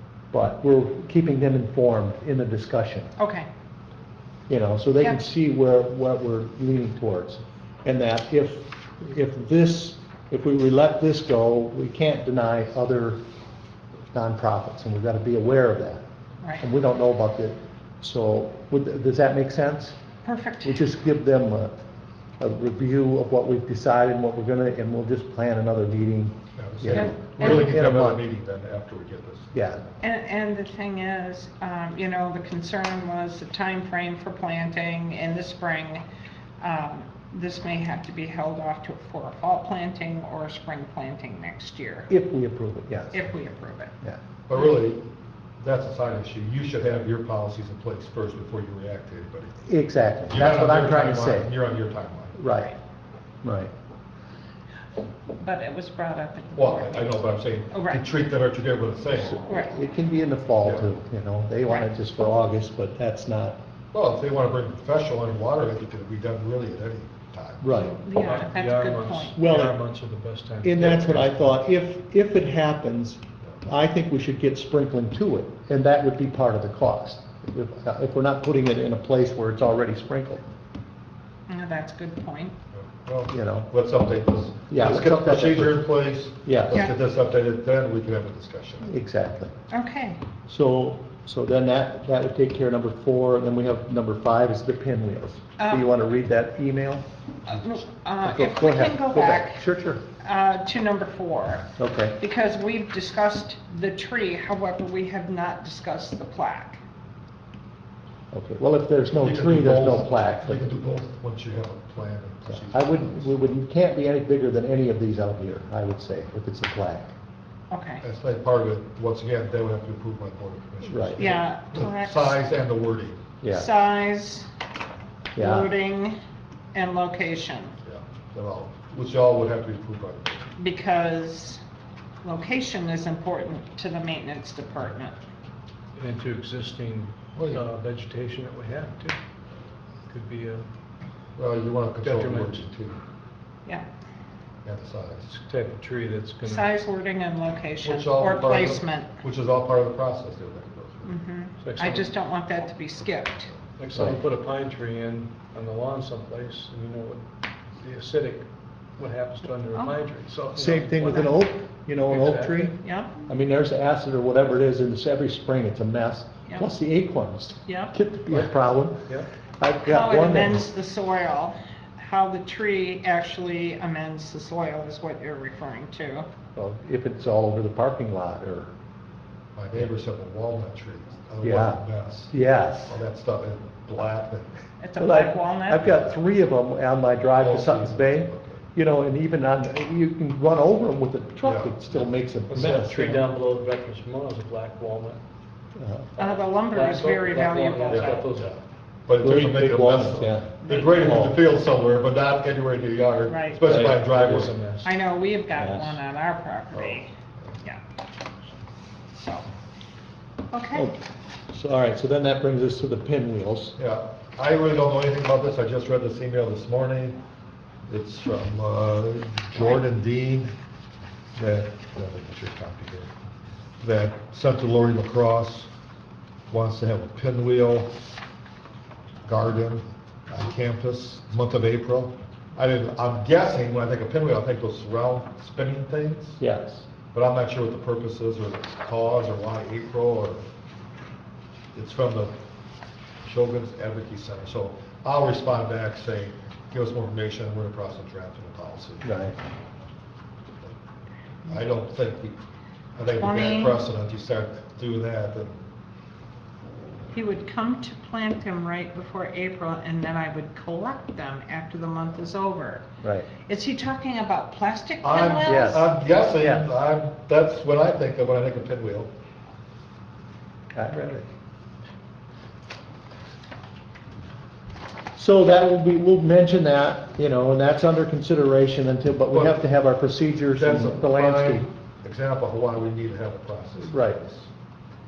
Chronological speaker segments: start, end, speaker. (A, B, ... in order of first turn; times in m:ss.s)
0:00.3-0:03.1 A
0:03.2-0:03.5 B
0:04.5-0:13.2 A
0:14.1-0:16.0 A
0:16.6-0:20.0 A
0:20.2-0:20.8 B
0:20.6-0:21.8 A
0:22.4-0:28.2 A
0:26.6-0:29.6 C
0:26.9-0:27.7 B
0:29.5-0:29.8 A
0:30.0-0:36.0 B
0:36.6-0:42.1 B
0:42.1-0:43.3 A
0:43.1-0:43.9 B
0:44.5-0:45.1 C
0:45.6-0:49.6 C
0:49.6-0:51.5 A
0:50.3-0:52.4 C
0:52.4-0:52.7 A
0:53.4-0:53.7 A
0:55.4-0:58.0 B
0:56.5-0:59.4 C
0:59.2-1:03.6 A
0:59.4-0:59.7 B
1:00.6-1:00.9 C
1:03.9-1:07.6 C
1:07.6-1:08.0 A
1:07.8-1:09.6 B
1:08.2-1:11.6 D
1:09.4-1:09.8 A
1:10.6-1:20.4 A
1:21.5-1:22.6 B
1:22.7-1:28.9 C
1:23.3-1:23.7 A
1:24.7-1:25.9 A
1:26.4-1:26.8 A
1:28.8-1:29.5 A
1:29.7-1:30.2 B
1:30.5-1:37.0 A
1:35.6-1:35.9 B
1:37.4-1:39.6 B
1:38.2-1:40.0 A
1:40.2-1:46.8 B
1:41.8-1:42.2 A
1:48.3-1:50.6 A
1:49.2-1:53.3 C
1:52.5-1:57.1 A
1:57.7-1:58.0 B
1:58.0-2:03.2 C
2:00.8-2:01.3 A
2:01.2-2:02.4 B
2:03.4-2:03.7 A
2:03.5-2:04.5 B
2:05.4-2:05.7 A
2:05.4-2:06.2 B
2:06.7-2:07.7 B
2:07.8-2:10.5 C
2:10.6-2:11.6 B
2:12.2-2:15.2 B
2:16.0-2:19.2 D
2:17.4-2:17.6 C
2:20.1-2:20.7 D
2:21.4-2:23.0 C
2:22.0-2:22.6 D
2:24.6-2:25.3 C
2:25.3-2:26.7 D
2:26.4-2:29.2 B
2:27.8-2:31.1 C
2:31.0-2:33.5 B
2:31.6-2:32.1 D
2:33.8-2:37.2 D
2:37.8-2:41.3 D
2:40.6-2:49.1 A
2:41.1-2:41.4 B
2:42.0-2:42.6 D
2:42.8-2:43.1 B
2:47.6-2:48.0 B
2:49.6-2:50.7 A
2:49.8-2:56.2 B
2:56.5-2:58.7 A
2:59.6-3:02.3 C
3:01.4-3:03.0 A
3:02.9-3:04.6 C
3:04.8-3:05.9 B
3:05.0-3:13.2 A
3:07.4-3:08.6 C
3:11.4-3:11.8 C
3:12.5-3:15.2 D
3:15.8-3:16.1 A
3:16.2-3:18.5 D
3:16.2-3:18.2 B
3:17.9-3:24.5 C
3:19.2-3:21.4 A
3:20.6-3:21.2 B
3:23.3-3:23.8 B
3:23.7-3:24.9 D
3:24.8-3:27.1 B
3:25.5-3:26.0 A
3:29.1-3:29.5 B
3:30.5-3:30.9 B
3:31.5-3:33.8 A
3:33.8-3:37.2 C
3:37.9-3:40.5 C
3:41.3-3:43.1 C
3:43.8-3:45.7 C
3:46.5-3:47.9 C
3:49.2-3:56.4 C
3:56.4-3:56.8 A
3:57.1-4:00.4 C
4:01.7-4:02.3 C
4:03.2-4:09.1 C
4:09.0-4:09.4 A
4:11.4-4:12.4 C
4:13.0-4:15.6 C
4:13.2-4:13.8 B
4:17.1-4:22.8 B
4:23.0-4:23.3 A
4:23.4-4:25.9 B
4:25.0-4:29.1 C
4:25.4-4:26.7 A
4:30.7-4:31.3 A
4:35.2-4:41.7 A
4:39.3-4:39.6 C
4:40.5-4:44.4 C
4:43.8-4:44.2 A